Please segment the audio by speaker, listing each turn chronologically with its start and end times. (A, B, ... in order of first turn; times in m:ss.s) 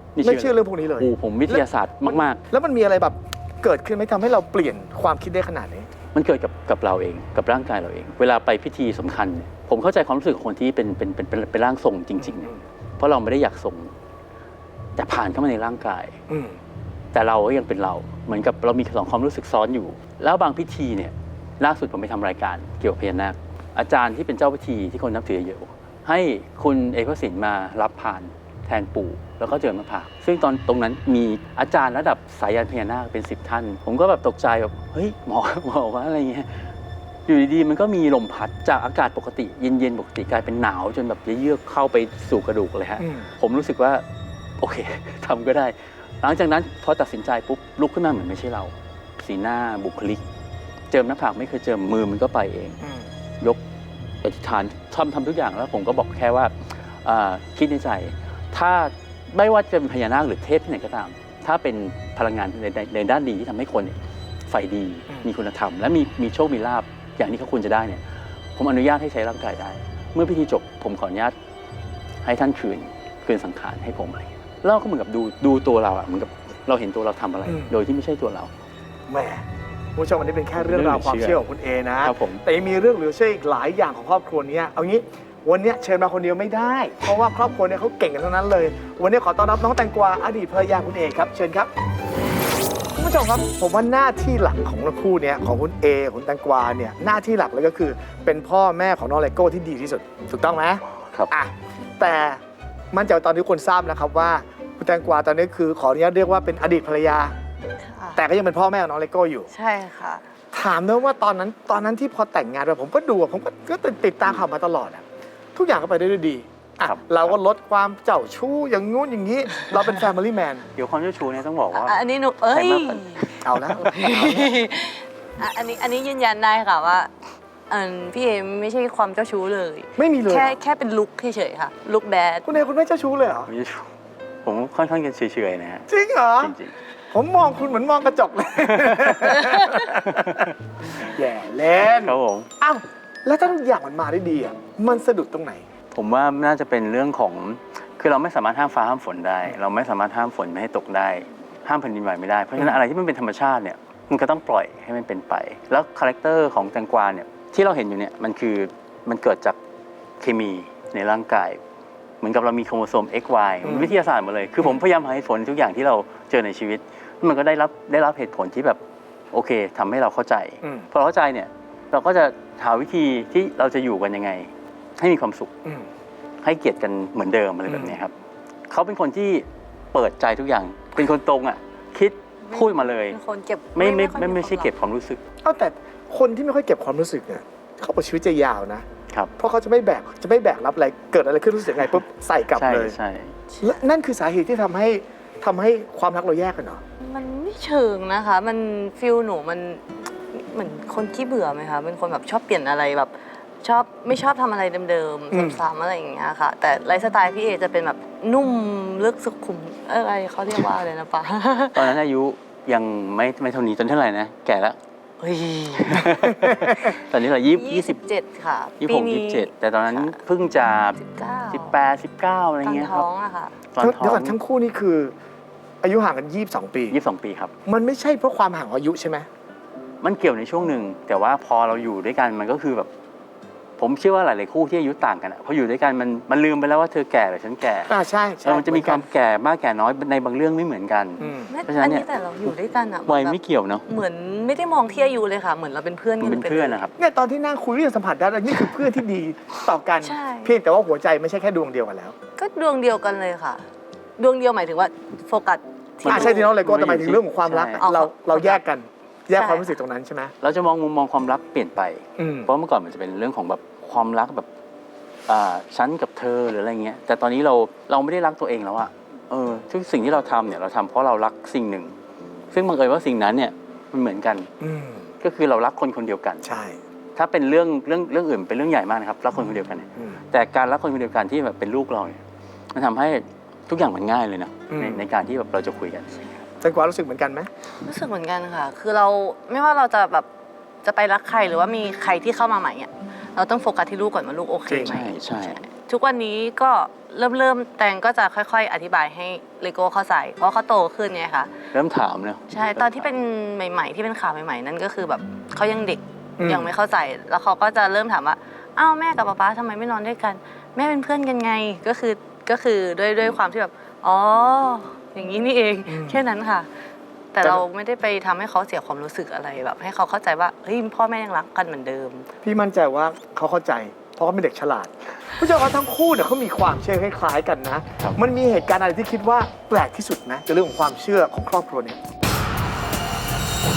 0:00.2-0:02.4 A
0:00.2-0:05.9 B
0:06.1-0:13.9 A
0:12.2-0:12.6 B
0:15.0-0:16.2 A
0:16.3-0:16.6 B
0:17.1-0:36.7 A
0:37.3-0:44.0 A
0:43.0-0:43.3 B
0:44.6-0:50.2 A
0:50.9-0:52.8 A
0:52.8-0:53.1 B
0:54.2-1:04.0 A
1:04.5-1:11.4 A
1:12.2-1:18.5 A
1:17.4-1:17.7 B
1:19.1-1:31.7 B
1:20.6-1:21.4 A
1:22.0-1:22.4 A
1:33.0-1:42.4 B
1:42.9-1:47.3 B
1:47.8-1:48.2 C
1:48.2-1:49.5 B
1:49.5-1:50.2 C
1:50.5-2:00.6 B
1:56.8-1:57.4 A
2:00.8-2:02.0 A
2:01.8-2:07.1 C
2:02.5-2:03.1 A
2:03.4-2:04.5 B
2:07.7-2:12.5 C
2:10.0-2:10.6 B
2:12.4-2:13.5 B
2:13.5-2:13.9 A
2:14.4-2:16.8 A
2:15.9-2:16.6 B
2:17.1-2:25.6 B
2:18.7-2:20.5 A
2:22.0-2:22.5 A
2:25.9-2:39.6 A
2:40.2-2:41.6 A
2:42.2-2:48.8 A
2:43.6-2:44.0 B
2:49.3-2:55.5 A
2:50.6-2:50.9 B
2:56.4-2:58.1 A
2:57.7-2:58.0 B
2:58.7-3:03.2 A
3:02.5-3:04.7 C
3:03.8-3:05.2 A
3:05.4-3:08.8 B
3:09.4-3:13.0 B
3:12.5-3:13.4 A
3:13.6-3:16.8 B
3:17.0-3:31.9 C
3:25.3-3:25.6 B
3:31.7-3:34.8 A
3:35.2-3:36.1 C
3:35.8-3:38.0 A
3:36.3-3:36.9 B
3:37.5-3:39.5 C
3:38.8-3:41.0 A
3:41.0-3:41.8 C
3:41.5-3:43.1 A
3:42.6-3:43.6 C
3:43.7-3:44.4 A
3:43.8-3:45.2 B
3:45.8-3:47.0 B
3:46.9-3:47.5 A
3:47.6-3:49.3 B
3:50.0-3:52.9 A
3:53.8-4:02.6 A
3:57.8-3:59.1 B
4:01.2-4:01.5 B
4:01.2-4:06.9 C
4:03.1-4:03.9 A
4:06.2-4:06.9 A
4:07.0-4:12.2 B
4:10.0-4:10.5 C
4:12.4-4:13.6 C
4:14.2-4:16.5 C
4:16.0-4:17.9 A
4:16.0-4:20.3 B
4:17.8-4:18.6 C
4:19.3-4:19.8 C
4:20.4-4:24.5 A
4:22.2-4:22.5 B
4:25.3-4:32.0 A
4:32.5-4:34.5 A
4:34.6-4:35.1 B
4:35.2-4:36.6 A
4:36.4-4:36.8 B
4:37.2-4:42.2 A
4:42.7-4:46.4 A
4:44.7-4:45.1 B
4:46.6-4:47.5 B
4:47.8-4:50.3 C
4:50.8-5:01.5 C
4:54.7-4:55.0 B
4:54.8-4:55.6 A
5:01.7-5:03.1 A
5:02.5-5:16.7 C
5:06.4-5:06.7 B
5:15.9-5:16.2 B
5:17.3-5:22.3 C
5:22.4-5:32.0 B